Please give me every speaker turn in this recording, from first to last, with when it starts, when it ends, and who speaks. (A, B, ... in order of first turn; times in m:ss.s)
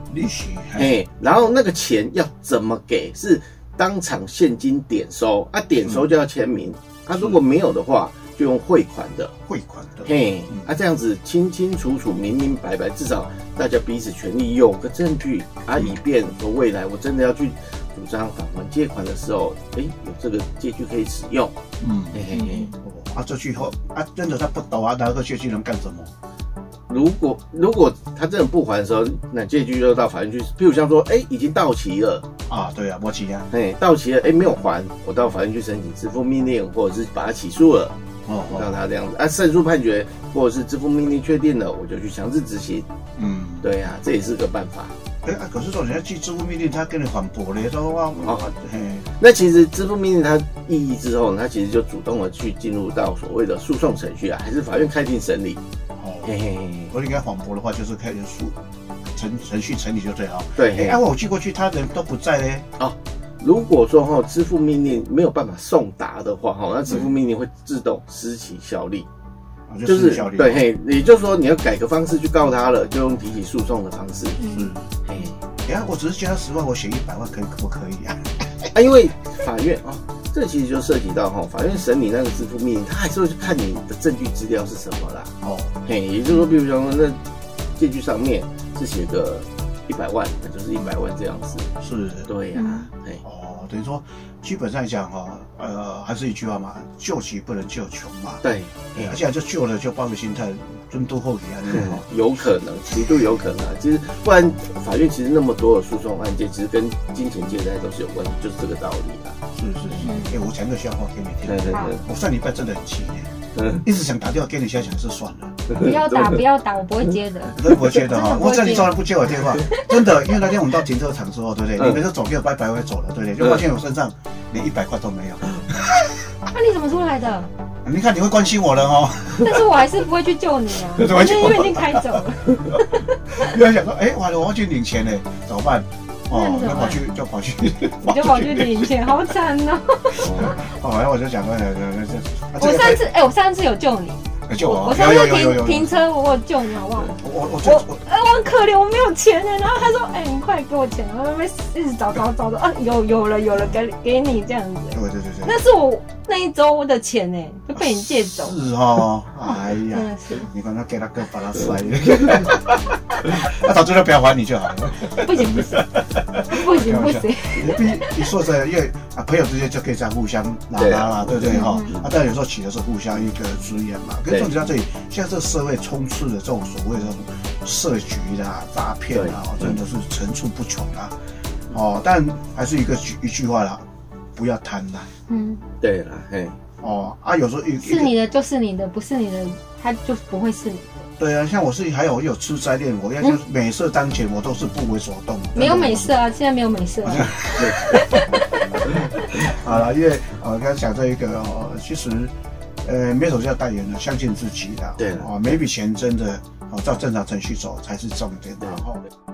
0:00.1-0:01.0 A
0:00.8-0:09.3 B
0:09.5-0:10.7 A
0:10.0-0:21.6 B
0:21.8-0:26.1 A
0:22.1-0:22.7 B
0:22.3-0:22.7 C
0:26.9-0:32.3 B
0:32.5-0:33.5 A
0:33.5-0:38.0 B
0:38.2-0:38.8 A
0:38.5-0:42.9 B
0:43.2-0:43.7 A
0:43.6-0:45.0 B
0:45.2-0:49.1 A
0:49.2-0:55.6 B
0:56.0-0:56.3 A
0:56.2-0:56.9 B
0:56.9-1:02.7 A
1:00.6-1:01.0 B
1:02.8-1:09.1 B
1:09.7-1:10.7 A
1:09.8-1:14.4 B
1:14.4-1:14.7 C
1:14.4-1:14.9 A
1:15.1-1:15.4 B
1:15.6-1:18.7 A
1:18.7-1:25.3 B
1:25.4-1:25.7 A
1:25.8-1:27.2 B
1:27.8-1:31.7 B
1:31.8-1:32.3 A
1:32.3-1:33.2 B
1:32.6-1:32.9 C
1:33.2-1:42.0 A
1:38.4-1:39.2 B
1:41.7-1:49.4 B
1:49.5-1:55.8 A
1:50.0-1:50.4 C
1:51.5-1:52.0 B
1:53.6-1:53.8 B
1:55.7-1:56.4 B
1:55.7-2:00.4 C
1:57.6-2:06.1 A
2:06.5-2:07.5 C
2:07.8-2:09.6 A
2:09.3-2:13.0 C
2:10.9-2:12.3 A
2:13.3-2:18.9 A
2:16.3-2:17.0 C
2:18.0-2:20.7 C
2:20.1-2:23.0 A
2:20.2-2:20.5 B
2:22.6-2:38.6 C
2:24.5-2:25.9 A
2:27.2-2:28.0 A
2:34.9-2:35.6 A
2:37.8-3:01.2 A
2:39.4-2:40.5 C
2:45.1-2:48.3 C
2:50.8-2:52.1 B
2:51.5-2:51.9 C
2:59.1-2:59.8 B
3:01.7-3:05.1 A
3:05.3-3:05.6 C
3:05.8-3:06.6 B
3:06.8-3:08.1 A
3:07.8-3:11.0 C
3:11.2-3:16.2 A
3:15.5-3:18.6 C
3:17.0-3:29.0 A
3:17.6-3:18.0 B
3:25.0-3:25.4 B
3:28.6-3:28.8 B